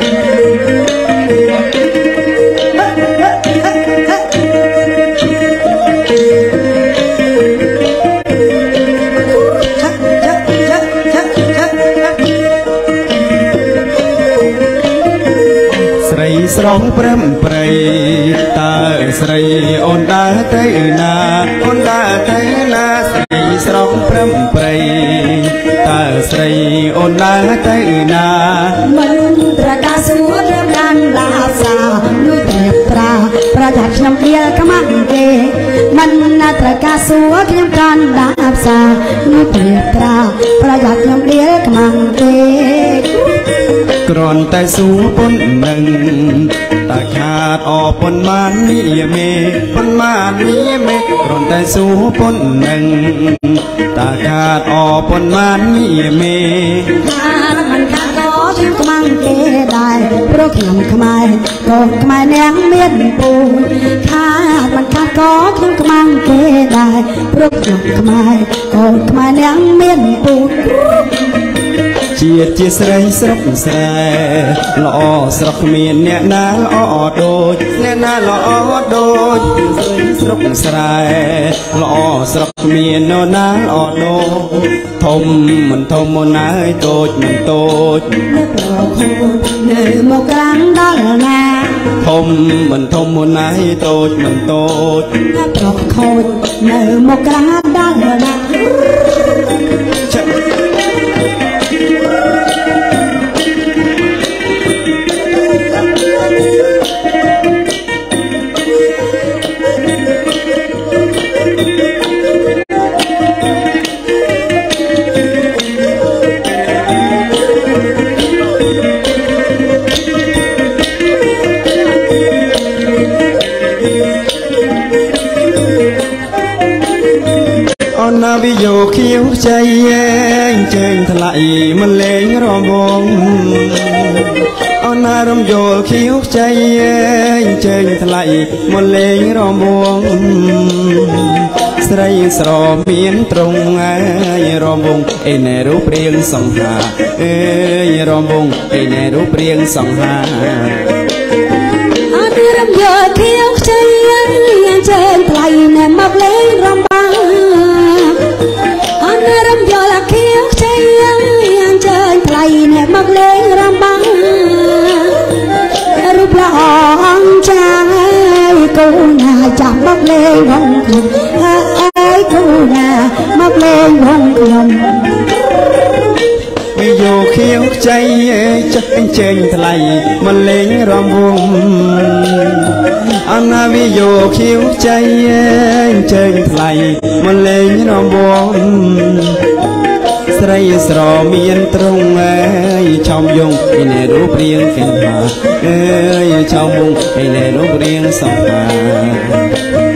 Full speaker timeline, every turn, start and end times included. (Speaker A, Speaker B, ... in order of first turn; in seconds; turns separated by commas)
Speaker A: 10.5-11.5, Speaker B: 16.0-28.8, Speaker A: 28.8-43.2, Speaker B: 44.0-57.0, Speaker A: 57.0-71.2, Speaker B: 72.1-88.3, Speaker A: 88.3-91.9, Speaker B: 92.0-95.2, Speaker A: 95.2-98.9, Speaker B: 127.9-150.9, Speaker A: 151.9-158.3, Speaker A: 159.0-175.1, Speaker B: 176.7-189.4, Speaker B: 190.3-199.5